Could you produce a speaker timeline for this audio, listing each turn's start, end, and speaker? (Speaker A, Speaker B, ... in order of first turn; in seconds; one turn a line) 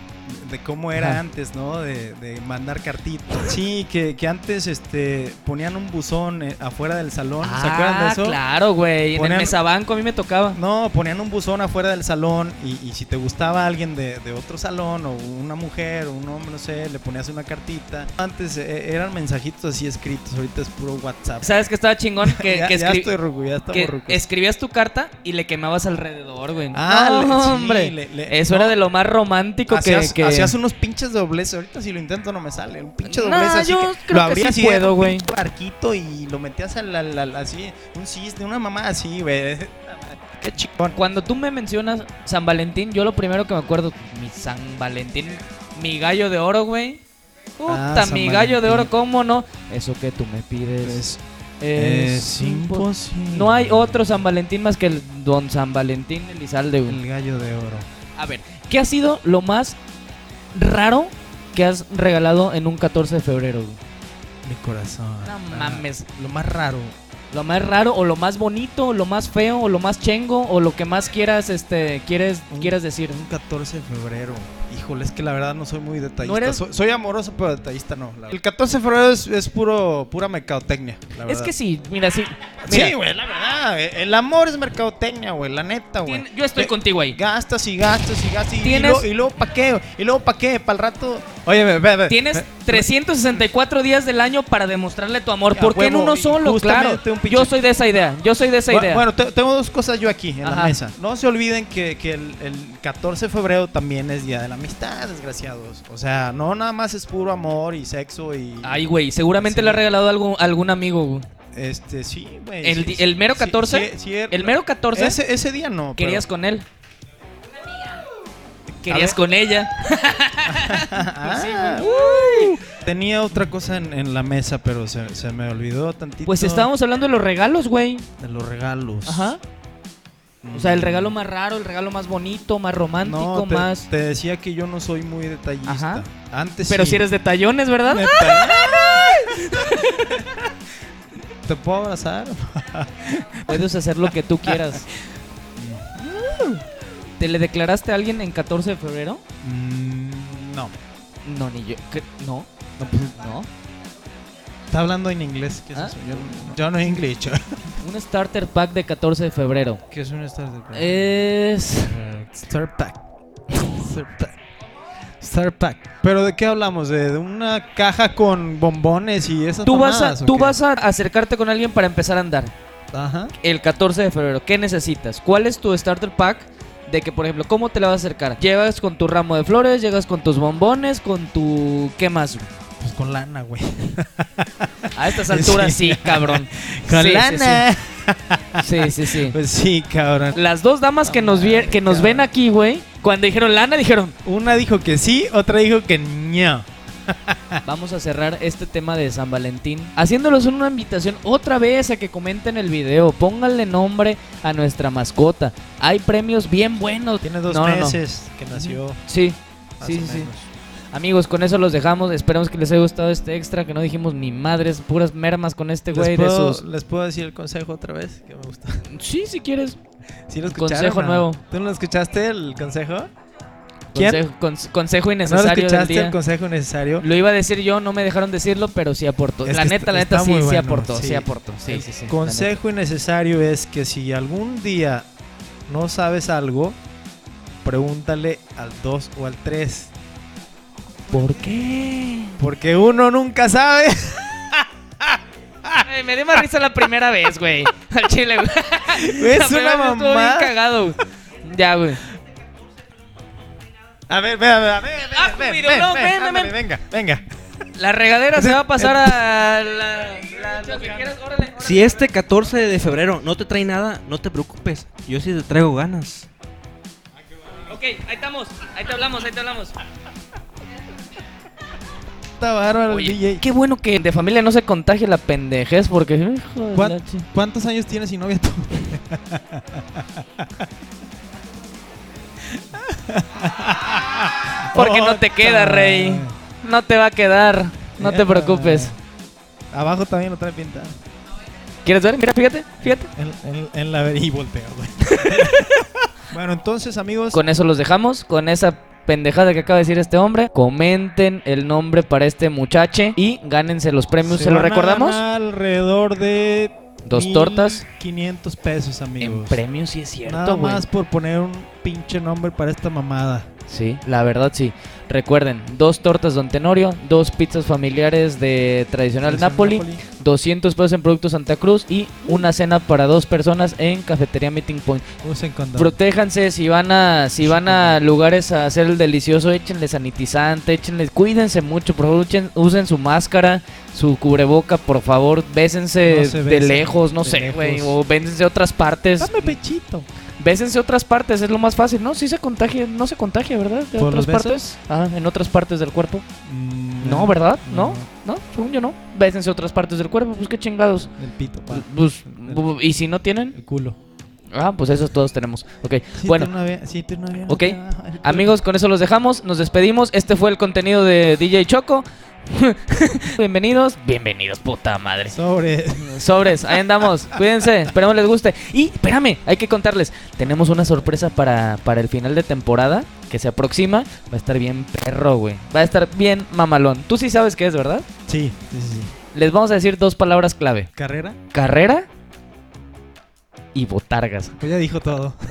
Speaker A: 0.2-8.4
Speaker B: 0.9-1.2
Speaker B: 7.4-10.6
Speaker A: 9.1-9.6
Speaker A: 10.5-21.5
Speaker B: 21.4-23.1
Speaker A: 22.2-24.2
Speaker B: 23.7-30.5
Speaker A: 26.7-28.8
Speaker A: 29.7-41.0
Speaker B: 33.0-35.3
Speaker B: 40.9-47.0
Speaker B: 47.6-51.0
Speaker A: 47.7-48.9
Speaker A: 50.8-51.2
Speaker B: 51.6-57.0
Speaker A: 51.7-54.2
Speaker A: 56.9-57.9
Speaker B: 58.1-59.8
Speaker B: 60.5-63.8
Speaker A: 64.4-66.9
Speaker B: 65.2-66.1
Speaker B: 67.3-73.2
Speaker A: 72.5-81.5
Speaker B: 76.2-76.6
Speaker B: 81.2-82.9
Speaker A: 82.7-92.9
Speaker B: 86.0-87.2
Speaker B: 88.6-89.0
Speaker B: 92.1-99.0
Speaker A: 95.5-97.5
Speaker A: 98.7-108.8
Speaker B: 100.4-100.8
Speaker B: 108.6-111.3
Speaker A: 109.4-109.8
Speaker A: 111.5-116.2
Speaker B: 112.6-115.2
Speaker B: 115.9-116.7
Speaker B: 118.8-122.6
Speaker A: 118.9-119.2
Speaker A: 120.5-126.7
Speaker B: 126.2-128.1
Speaker A: 128.2-129.4
Speaker B: 129.1-129.4
Speaker A: 130.4-131.1
Speaker B: 130.5-133.9
Speaker A: 133.0-137.1
Speaker B: 135.7-136.0
Speaker B: 136.7-140.3
Speaker A: 137.8-140.4
Speaker A: 141.4-143.7
Speaker B: 143.5-144.9
Speaker A: 144.4-144.8
Speaker A: 145.6-146.6
Speaker B: 147.2-149.2
Speaker A: 149.4-150.7
Speaker B: 151.2-152.5
Speaker A: 152.8-153.3
Speaker B: 153.2-153.5
Speaker A: 154.7-157.7
Speaker B: 155.7-156.4
Speaker B: 157.8-159.8
Speaker A: 159.9-161.2
Speaker B: 160.7-162.0
Speaker A: 161.8-164.3
Speaker A: 165.2-170.6
Speaker B: 169.6-172.5
Speaker A: 172.9-173.3
Speaker B: 173.4-182.5
Speaker A: 182.8-190.4
Speaker B: 184.9-187.7
Speaker B: 188.6-189.3
Speaker B: 190.3-194.1
Speaker A: 191.0-192.3
Speaker A: 194.2-197.6
Speaker B: 197.6-208.0
Speaker A: 207.2-209.0
Speaker B: 208.5-210.3
Speaker A: 209.8-210.5
Speaker B: 210.9-216.6
Speaker A: 215.9-218.8
Speaker B: 218.9-219.8
Speaker A: 220.3-223.1
Speaker B: 220.4-221.4
Speaker B: 223.9-226.2
Speaker A: 223.9-224.2
Speaker A: 225.2-227.1
Speaker B: 227.0-232.6
Speaker A: 229.4-235.1
Speaker A: 235.7-236.8
Speaker A: 237.6-239.9
Speaker B: 241.1-242.4
Speaker A: 242.4-246.4
Speaker B: 245.8-252.0
Speaker A: 248.9-250.6
Speaker A: 254.1-257.2
Speaker B: 255.1-256.5
Speaker B: 257.8-262.0
Speaker A: 258.3-259.2
Speaker A: 260.4-261.1
Speaker C: 261.6-266.2
Speaker A: 261.7-262.1
Speaker B: 267.6-269.7
Speaker A: 272.4-273.4
Speaker B: 272.9-277.2
Speaker A: 276.7-280.7
Speaker A: 282.6-286.4
Speaker B: 284.7-288.9
Speaker A: 288.0-288.9
Speaker A: 289.7-291.0
Speaker B: 291.8-293.1
Speaker A: 292.8-297.4
Speaker B: 295.1-295.8
Speaker B: 297.3-305.2
Speaker A: 304.2-309.6
Speaker B: 307.1-307.8
Speaker B: 309.2-310.8
Speaker A: 310.2-313.5
Speaker B: 313.7-325.0
Speaker A: 319.2-320.0
Speaker A: 325.2-326.0
Speaker B: 325.8-339.6
Speaker A: 327.4-328.0
Speaker A: 336.0-338.0
Speaker A: 339.2-340.1
Speaker B: 340.4-346.2
Speaker A: 344.0-344.6
Speaker A: 346.4-348.1
Speaker B: 347.0-351.1
Speaker A: 351.1-352.6
Speaker B: 351.7-353.5
Speaker A: 353.5-354.0
Speaker B: 354.5-356.5
Speaker A: 356.2-358.5
Speaker B: 357.5-365.4
Speaker A: 365.3-367.4
Speaker B: 366.0-378.1
Speaker A: 378.3-379.1
Speaker B: 379.3-380.9
Speaker A: 381.0-381.4
Speaker B: 381.5-382.1
Speaker B: 383.7-384.5
Speaker A: 384.6-385.4